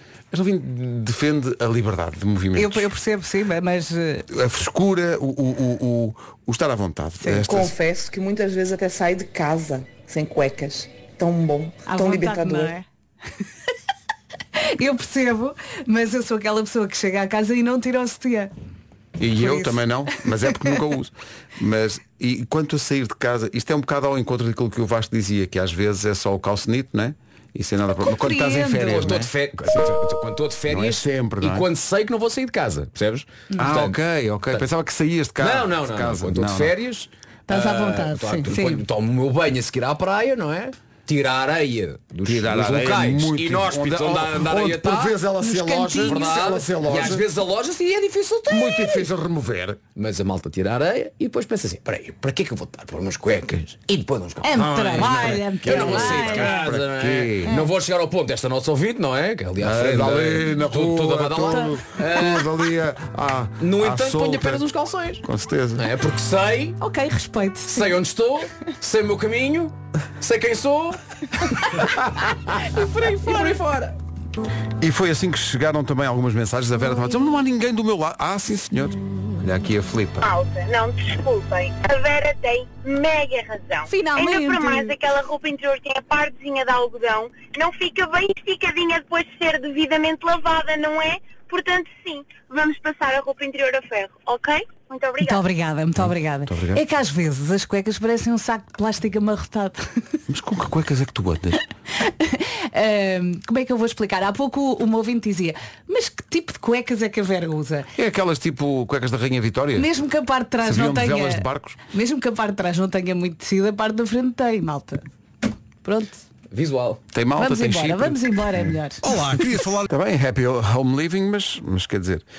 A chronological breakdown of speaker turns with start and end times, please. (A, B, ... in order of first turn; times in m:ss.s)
0:00.3-0:02.9 A
0:02.6-0:04.3 B
0:04.3-0:07.7 A
0:07.4-0:12.7 C
0:11.8-0:12.8 B
0:14.5-0:18.5 B
0:19.2-0:29.9 A
0:19.4-0:19.8 B
0:28.0-0:29.0 B
0:28.8-0:34.0 D
0:30.7-0:31.7 A
0:33.6-0:36.7 A
0:35.4-0:45.2 D
0:37.5-0:38.8 B
0:42.2-0:47.2 A
0:45.4-0:46.4 B
0:46.0-0:49.1 D
0:48.5-0:49.8 A
0:50.0-1:02.6 D
0:54.4-0:56.6 B
0:55.6-0:57.6 A
0:59.6-1:04.6 A
1:03.6-1:06.8 D
1:05.2-1:05.9 A
1:06.8-1:08.0 B
1:07.7-1:11.0 D
1:11.5-1:13.9 D
1:12.9-1:13.6 B
1:14.8-1:20.3 A
1:20.2-1:35.4 E
1:23.9-1:24.9 B
1:35.2-1:40.2 B
1:36.0-1:36.8 A
1:40.3-1:41.6 A
1:42.0-1:47.9 B
1:47.9-1:49.9 A
1:49.8-1:55.0 B
1:50.6-1:51.8 A
1:55.8-1:56.2 B
1:56.5-1:57.0 D
1:57.1-2:02.2 A
1:57.4-1:59.0 B